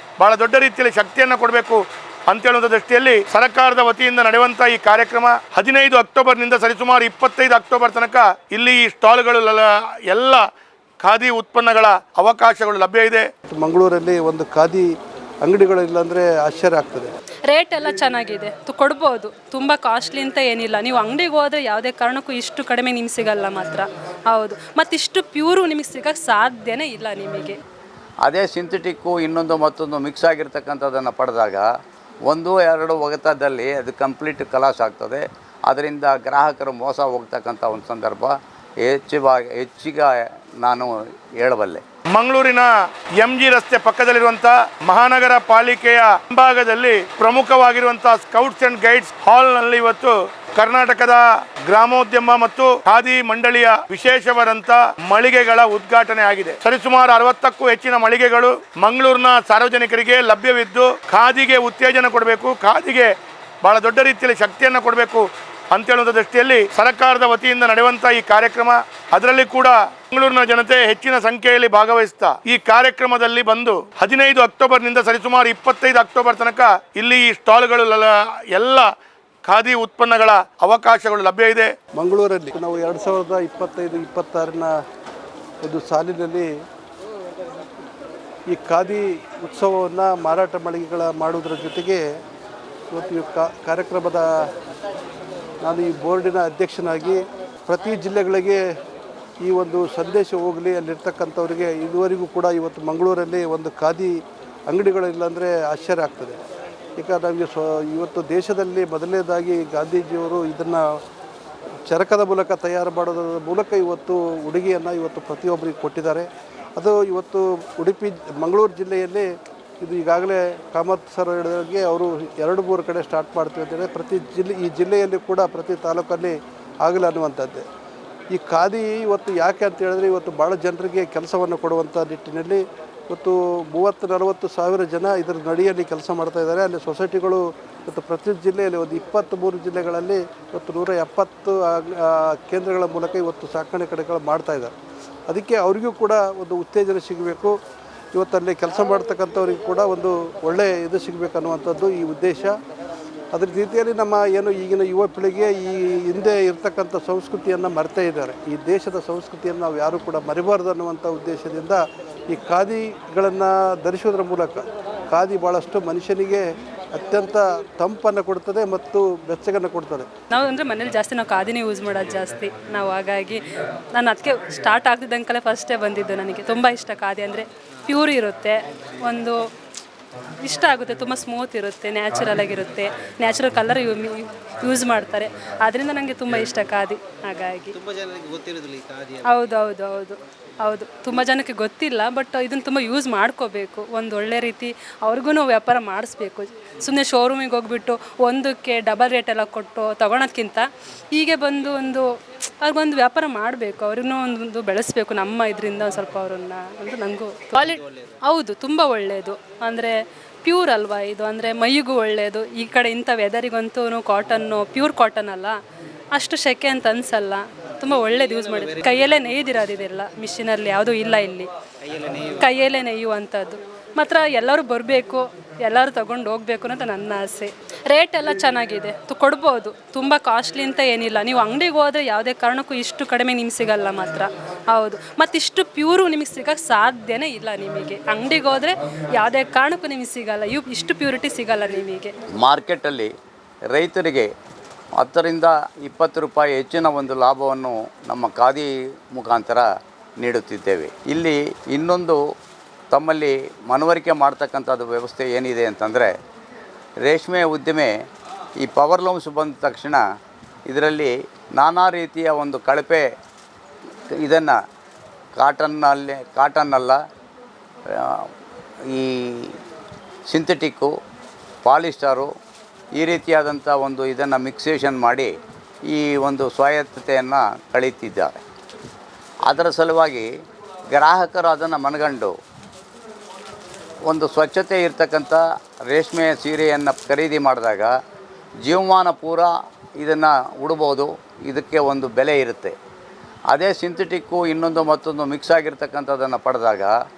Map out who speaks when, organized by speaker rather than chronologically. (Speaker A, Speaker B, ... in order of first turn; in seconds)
Speaker A: 0.2-10.4, 11.0-13.3, 42.1-63.1, 63.6-78.9, 79.5-81.7, 187.8-189.2, 207.8-208.1, 221.9-222.4
Speaker B: 13.5-14.9, 15.4-17.1, 82.0-84.7, 85.6-86.5, 88.5-92.0, 92.9-94.5, 95.6-98.6, 99.4-104.2, 104.7-106.4, 107.0-110.8, 111.9-119.3, 119.8-127.6, 128.3-144.7, 145.3-147.5, 148.1-152.5, 153.3-170.1
Speaker C: 17.5-27.6, 170.3-179.4, 180.4-187.8, 189.2-202.1, 202.6-215.6, 216.1-221.5, 222.2-242.1
Speaker D: 28.2-31.6, 32.3-41.8, 242.4-243.1, 243.7-244.3, 245.0-249.7, 250.2-252.2, 252.9-256.1, 257.0-257.9, 258.6-260.0, 260.6-263.1, 264.1-264.6, 265.4-267.0, 267.9-268.3, 268.9-269.6, 270.3-270.9, 271.6-272.3, 272.9-275.3, 275.9-278.4, 279.4-280.3, 280.9-282.3, 284.1-287.9, 288.6-292.8, 293.5-296.9